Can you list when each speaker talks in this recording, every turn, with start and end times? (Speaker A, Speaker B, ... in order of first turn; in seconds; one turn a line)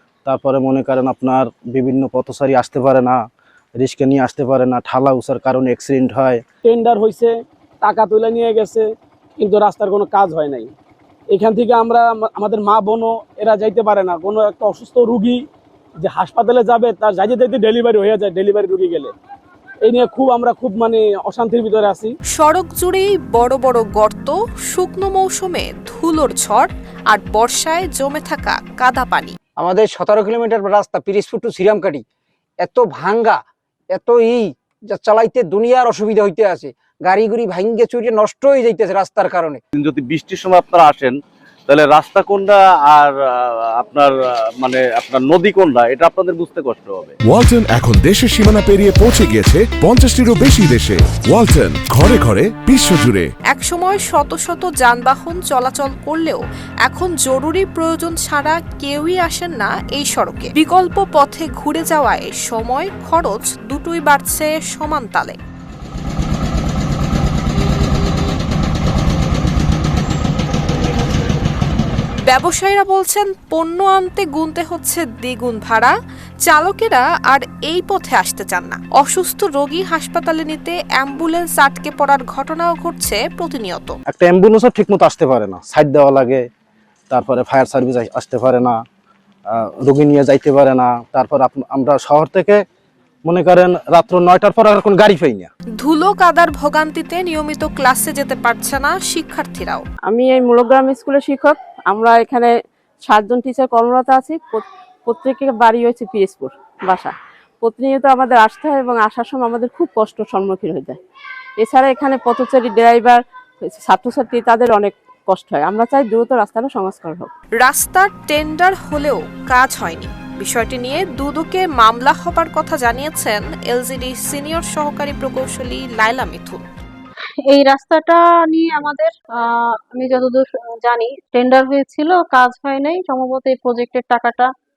Speaker A: 0.2-3.2
Speaker A: 3.8-6.4
Speaker B: 6.6-10.7
Speaker B: 11.3-15.4
Speaker B: 16.0-19.1
Speaker B: 19.8-22.1
Speaker C: 22.3-29.4
Speaker D: 29.6-32.0
Speaker D: 32.6-33.4
Speaker D: 33.9-39.6
Speaker E: 39.7-41.2
Speaker E: 41.7-47.1
Speaker F: 47.2-53.3
Speaker C: 53.5-65.4
Speaker C: 72.3-75.9
Speaker C: 76.5-84.0
Speaker A: 84.1-86.4
Speaker A: 87.1-88.8
Speaker A: 89.5-92.6
Speaker A: 93.3-95.5
Speaker C: 95.8-99.8
Speaker G: 100.1-102.5
Speaker G: 103.0-111.0
Speaker G: 111.6-117.3
Speaker C: 117.6-126.7
Speaker H: 127.5-134.5